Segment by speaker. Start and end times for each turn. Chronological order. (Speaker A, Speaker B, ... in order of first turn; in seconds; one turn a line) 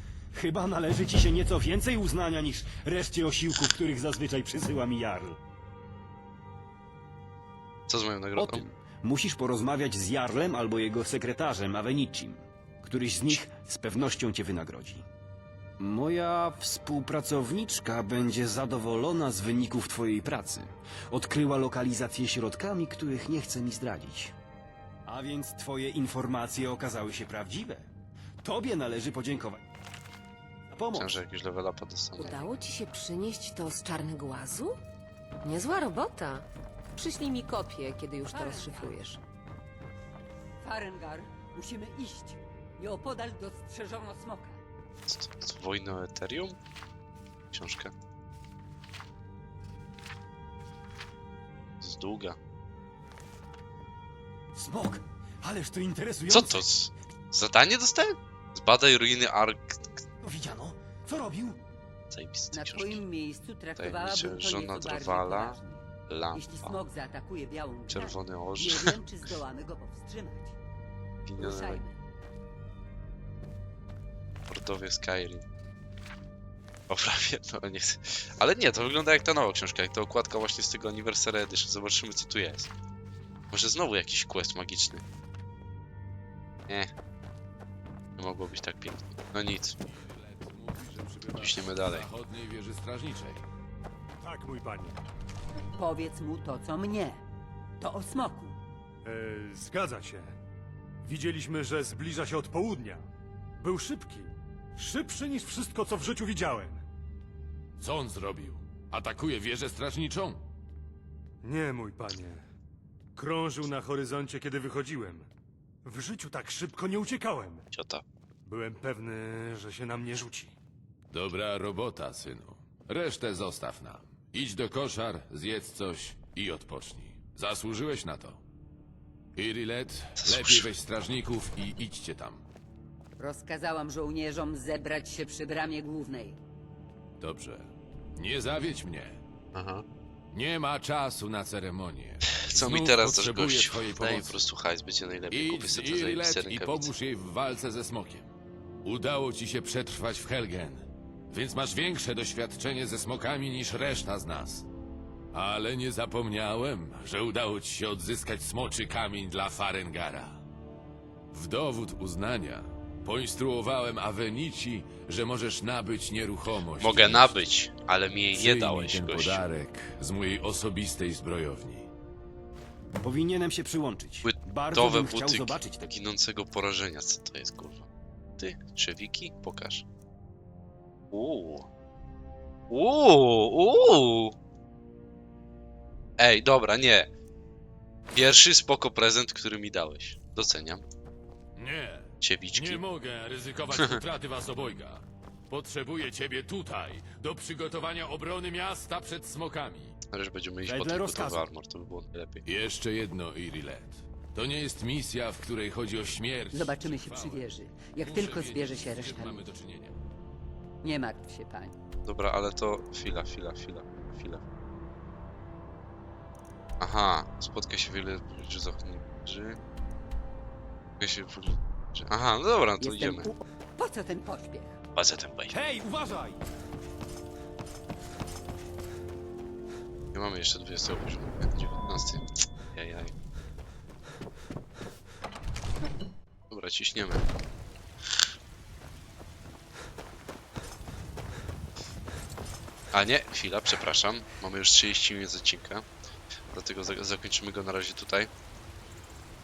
Speaker A: 0.3-5.4
Speaker B: 7.9-8.6
Speaker A: 8.4-15.0
Speaker A: 15.8-24.3
Speaker A: 25.1-27.9
Speaker A: 28.4-29.6
Speaker A: 30.7-31.2
Speaker B: 30.9-32.6
Speaker C: 32.1-34.8
Speaker C: 35.4-39.2
Speaker D: 38.3-39.2
Speaker D: 40.6-44.6
Speaker B: 45.1-46.6
Speaker B: 47.5-47.9
Speaker B: 51.8-52.4
Speaker A: 54.5-56.7
Speaker B: 56.3-60.0
Speaker A: 60.2-61.6
Speaker B: 62.1-63.0
Speaker D: 62.5-70.5
Speaker B: 63.8-66.8
Speaker B: 67.9-68.9
Speaker B: 71.2-71.8
Speaker D: 71.4-72.0
Speaker B: 74.5-75.4
Speaker B: 76.9-82.7
Speaker B: 83.5-85.0
Speaker B: 88.2-89.7
Speaker E: 89.8-93.4
Speaker B: 91.4-92.1
Speaker F: 94.2-95.0
Speaker D: 95.8-97.2
Speaker D: 97.8-98.6
Speaker F: 99.0-100.3
Speaker F: 101.0-103.1
Speaker F: 103.6-106.8
Speaker E: 107.8-110.4
Speaker F: 111.4-112.4
Speaker F: 113.2-115.3
Speaker F: 115.8-117.7
Speaker B: 117.7-118.0
Speaker F: 118.5-120.5
Speaker E: 121.1-128.4
Speaker E: 129.3-132.4
Speaker B: 130.2-130.7
Speaker D: 133.2-136.4
Speaker E: 137.2-139.2
Speaker B: 139.5-139.8
Speaker E: 140.3-144.4
Speaker B: 142.4-146.9
Speaker E: 145.3-148.3
Speaker E: 148.8-154.7
Speaker E: 155.3-160.4
Speaker E: 161.3-167.5
Speaker B: 166.8-169.4
Speaker E: 168.3-171.9
Speaker A: 173.0-175.9
Speaker B: 174.2-177.9
Speaker B: 178.4-179.8
Speaker B: 181.1-181.7
Speaker B: 182.7-184.3
Speaker B: 186.2-187.1
Speaker B: 188.1-190.8
Speaker E: 191.6-199.9
Speaker B: 192.2-192.8
Speaker B: 193.7-194.0
Speaker B: 200.1-202.4
Speaker A: 200.6-201.4
Speaker E: 202.4-210.0
Speaker D: 206.5-209.4
Speaker D: 210.8-211.7
Speaker B: 212.1-214.4
Speaker B: 216.8-219.6
Speaker B: 221.0-223.3
Speaker D: 222.8-223.2
Speaker A: 222.9-223.2
Speaker D: 223.8-224.8
Speaker B: 224.9-225.5
Speaker A: 225.5-226.4
Speaker B: 230.1-233.1
Speaker B: 236.5-237.2
Speaker B: 242.9-245.9
Speaker B: 246.5-248.3